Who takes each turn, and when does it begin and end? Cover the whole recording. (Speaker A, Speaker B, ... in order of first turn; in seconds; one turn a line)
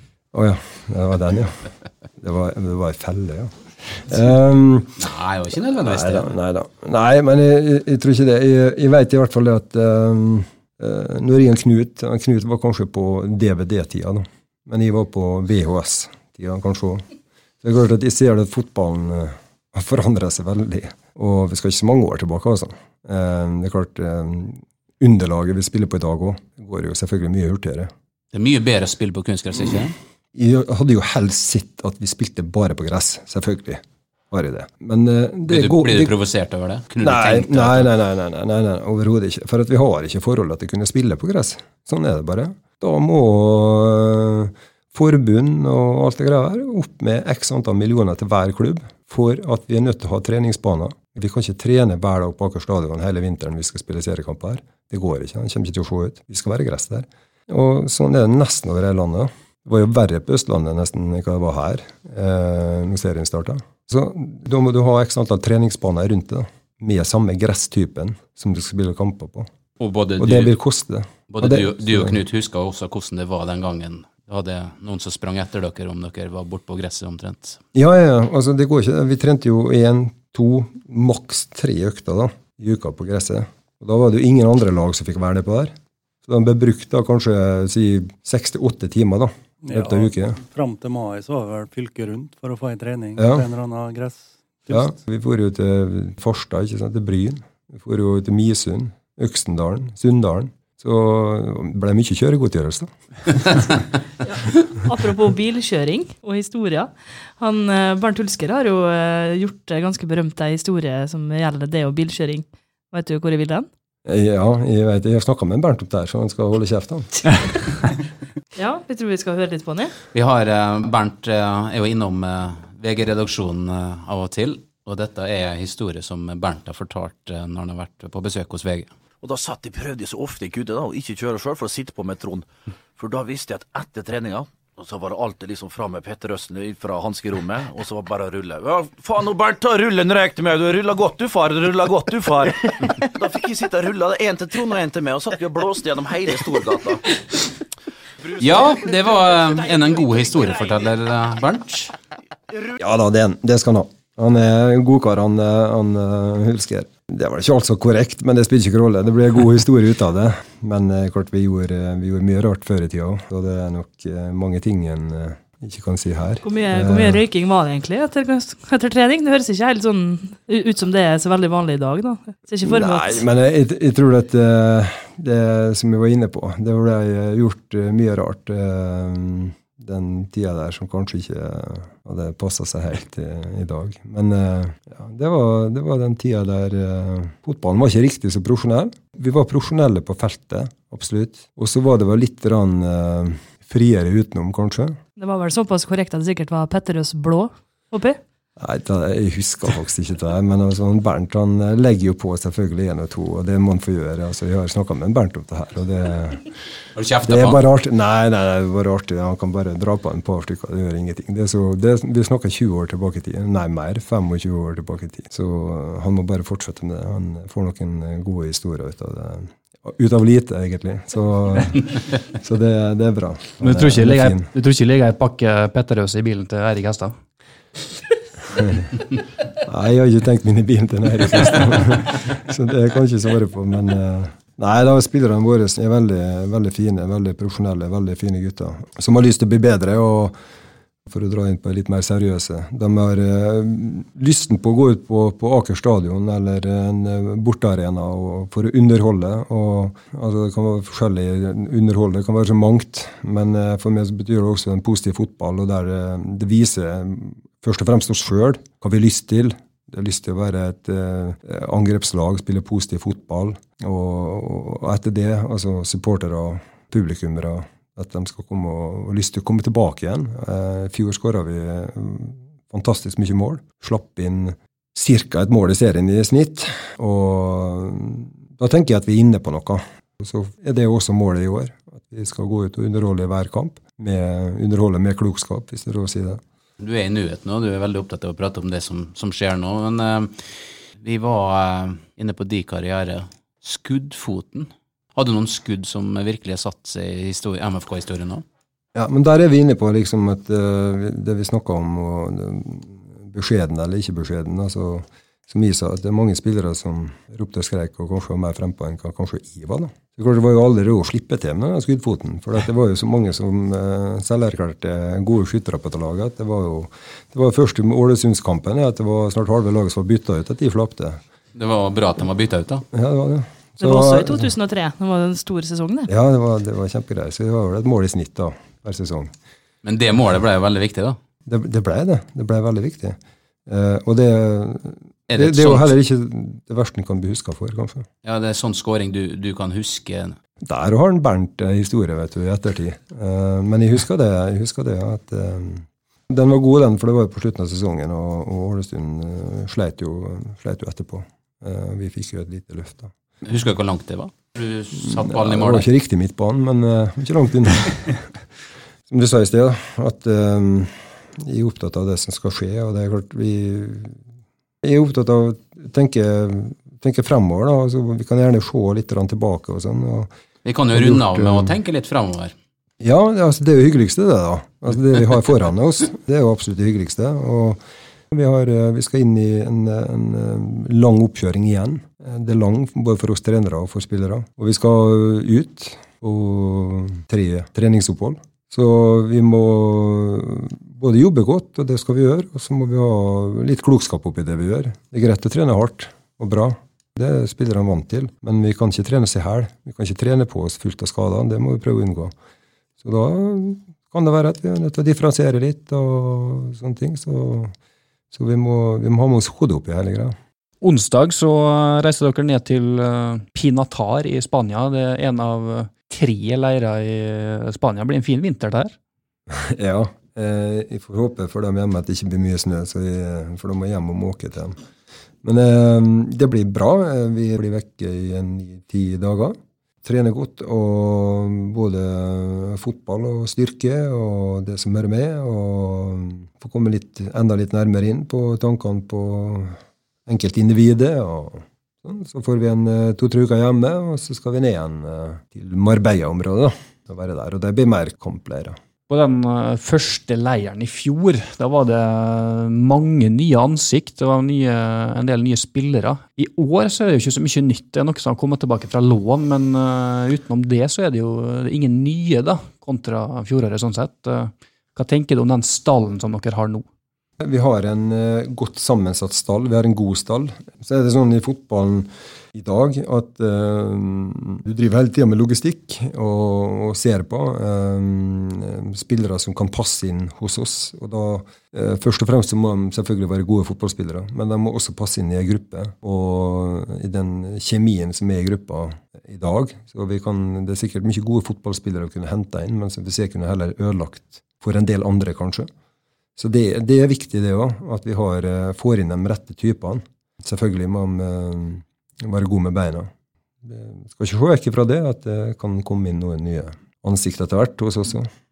Speaker A: 0.3-5.0
Speaker B: 5.0-6.3
Speaker A: 5.7-17.0
Speaker A: 17.6-27.9
Speaker B: 28.3-30.0
Speaker A: 30.3-36.1
Speaker B: 35.5-37.9
Speaker A: 37.0-69.5
Speaker B: 69.8-70.5
Speaker A: 70.2-72.2
Speaker B: 71.3-77.6
Speaker A: 77.7-90.4
Speaker C: 89.6-95.0
Speaker A: 93.2-93.5
Speaker A: 94.7-103.5
Speaker D: 104.2-113.7
Speaker A: 114.0-117.3
Speaker D: 118.5-119.9
Speaker B: 120.1-128.9
Speaker E: 129.2-147.0
Speaker B: 148.4-151.9
Speaker A: 152.8-167.2
Speaker D: 166.4-173.2
Speaker A: 172.6-195.0
Speaker D: 195.2-198.2
Speaker A: 198.6-206.5
Speaker B: 206.9-207.6
Speaker A: 207.2-224.5
Speaker F: 223.6-227.2
Speaker A: 228.5-228.9
Speaker A: 229.6-240.3
Speaker A: 241.1-286.4
Speaker B: 286.8-298.4
Speaker A: 298.9-321.2
Speaker B: 321.5-322.8
Speaker A: 322.9-324.5
Speaker D: 323.8-326.1
Speaker A: 326.1-329.3
Speaker B: 329.8-331.2
Speaker A: 331.5-338.1
Speaker B: 335.3-336.0
Speaker B: 338.2-340.4
Speaker A: 340.6-353.1
Speaker B: 353.4-355.9
Speaker A: 354.9-358.2
Speaker A: 359.1-364.2
Speaker A: 364.8-370.3
Speaker B: 370.6-372.5
Speaker A: 370.9-371.8
Speaker A: 373.0-402.3
Speaker A: 403.0-407.7
Speaker A: 408.3-410.3
Speaker F: 410.8-418.9
Speaker A: 419.5-424.8
Speaker A: 425.4-448.8
Speaker F: 449.1-466.9
Speaker A: 467.4-495.7
Speaker A: 496.4-503.1
Speaker A: 503.6-508.3